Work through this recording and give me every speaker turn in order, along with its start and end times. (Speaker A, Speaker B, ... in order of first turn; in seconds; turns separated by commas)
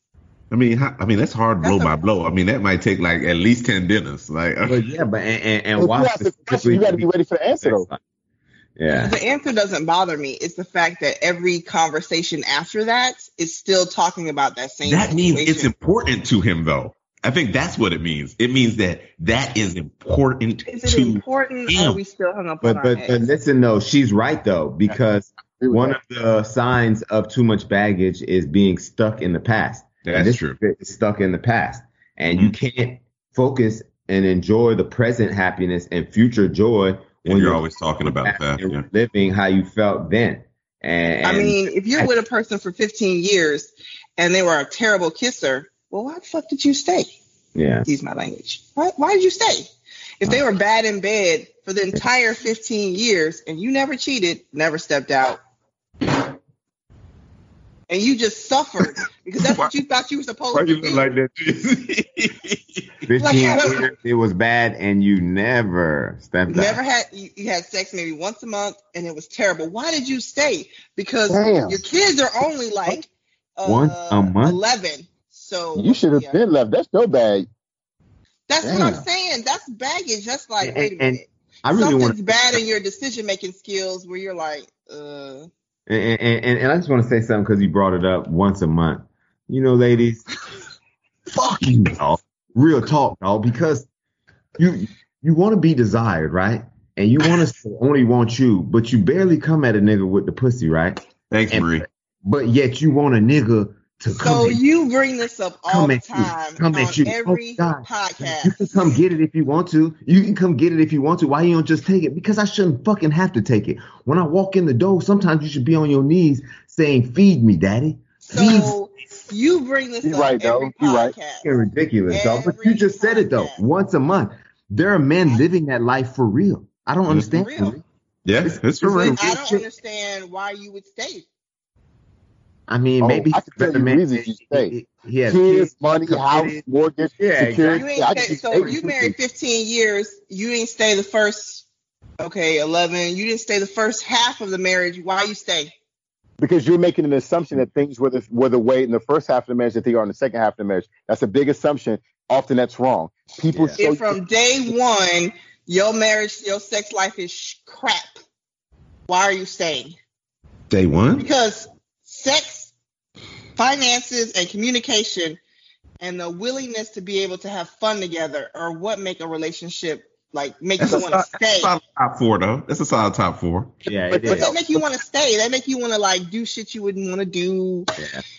Speaker A: 0.5-4.8, Speaker B: 1.6-1.9, Speaker C: 4.7-7.1, Speaker D: 5.8-7.9, Speaker C: 7.6-8.0, Speaker C: 8.8-9.2, Speaker B: 8.9-15.7, Speaker A: 14.8-22.0, Speaker B: 20.6-23.3, Speaker C: 22.6-42.1, Speaker D: 25.6-26.0, Speaker A: 30.0-30.6, Speaker A: 37.2-38.8, Speaker B: 41.2-47.1, Speaker C: 47.5-47.9, Speaker B: 47.9-49.7, Speaker B: 50.2-55.4, Speaker B: 57.9-61.1, Speaker A: 60.5-63.1, Speaker C: 63.1-66.8, Speaker B: 63.2-63.9, Speaker B: 66.5-76.4, Speaker D: 71.3-71.8, Speaker C: 73.7-74.6, Speaker D: 75.8-77.5, Speaker B: 78.5-85.5, Speaker D: 78.6-79.0, Speaker C: 80.6-82.6, Speaker C: 85.9-90.2, Speaker C: 91.3-93.9, Speaker C: 94.6-104.6, Speaker A: 101.3-101.8, Speaker B: 104.1-108.5, Speaker C: 105.7-118.7, Speaker B: 118.3-121.5, Speaker D: 120.0-121.1, Speaker C: 121.4-127.8, Speaker B: 122.1-123.6, Speaker B: 127.3-127.8, Speaker A: 128.2-129.2, Speaker C: 128.4-129.6, Speaker B: 128.8-131.2, Speaker C: 132.7-136.6, Speaker D: 133.0-134.7, Speaker D: 135.3-139.1, Speaker C: 137.2-138.8, Speaker B: 137.7-141.6, Speaker B: 142.2-145.7, Speaker D: 146.4-154.2, Speaker C: 153.5-153.8, Speaker B: 153.8-158.1, Speaker B: 159.1-159.9, Speaker A: 160.7-161.3, Speaker B: 161.2-162.7, Speaker B: 163.6-165.4, Speaker B: 166.0-171.7, Speaker A: 170.8-173.8, Speaker C: 173.8-174.5, Speaker D: 174.1-174.6, Speaker B: 174.2-177.9, Speaker C: 178.0-178.2